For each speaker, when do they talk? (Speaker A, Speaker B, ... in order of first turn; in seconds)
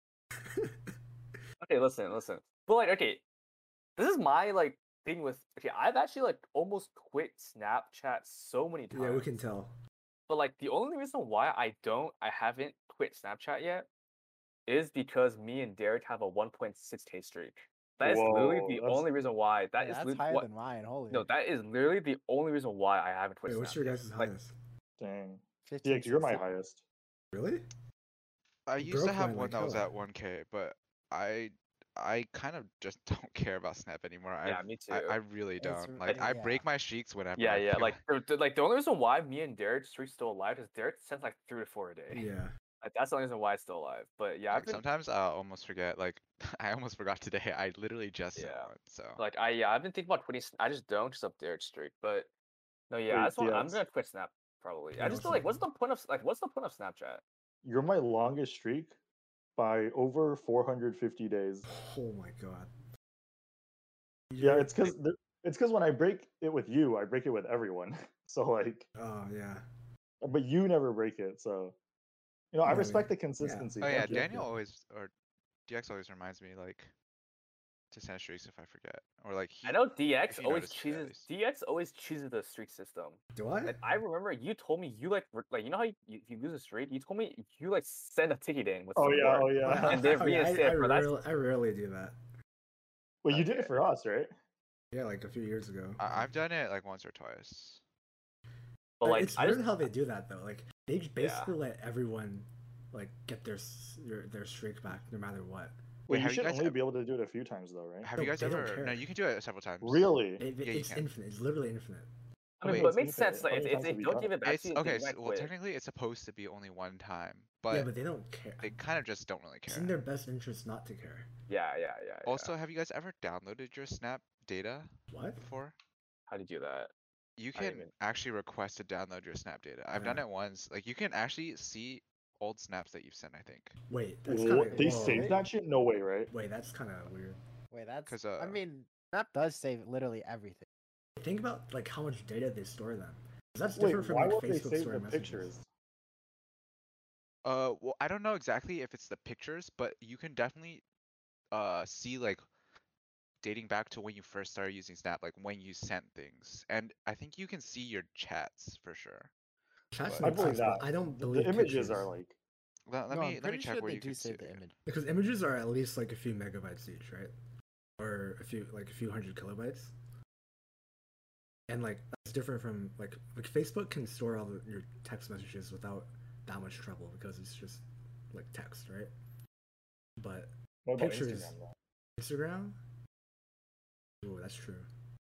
Speaker A: 0.4-1.4, 8.9-9.7, 23.5-24.6, 27.3-27.6, 28.8-29.9, 42.1-42.5, 55.0-55.6, 61.7-62.7, 64.3-64.9, 69.0-69.6, 72.7-74.5, 83.3-83.8, 89.6-92.2, 94.9-96.3, 99.0-105.8, 108.2-109.0, 110.4-112.1, 117.7-118.8, 119.7-121.3, 125.1-125.4, 129.9-130.2, 133.9-135.4, 136.3-137.4, 141.2-145.6, 159.9-162.1, 164.9-167.3, 168.0-169.9, 171.7-179.1, 180.2-181.5, 182.2-182.8, 184.2-184.9
Speaker B: 1.6-3.2, 4.0-9.3, 10.3-13.9, 14.7-20.5, 21.1-24.3, 34.5-35.2, 37.4-42.2, 42.8-44.8, 48.4-52.3, 52.9-57.2, 79.7-91.1, 93.3-93.7, 99.0-99.9, 101.2-101.5, 112.6-115.5, 121.5-122.5, 126.3-126.9, 127.5-127.9
Speaker C: 18.0-19.1, 25.0-26.8, 53.1-53.8, 57.6-59.0, 59.6-61.6, 64.4-68.9, 70.2-71.8, 72.5-74.3, 89.0-90.3, 93.2-94.3, 106.1-108.1, 109.8-110.5, 112.6-114.3, 134.3-136.3, 143.8-145.7, 160.2-162.4, 180.8-181.8
Speaker D: 19.8-21.3, 25.6-26.5, 35.6-36.6, 134.7-135.5, 137.7-140.7, 163.1-164.7
Speaker E: 28.7-38.0, 44.5-49.2, 73.8-75.1, 75.7-76.9, 77.9-81.3, 96.0-97.8, 106.1-106.8, 108.0-111.1, 112.6-112.9, 114.4-117.9, 118.6-120.0, 122.3-125.8, 127.4-133.8, 138.1-138.6, 147.4-150.8, 151.5-152.4, 153.4-159.3, 160.0-160.3, 162.9-164.7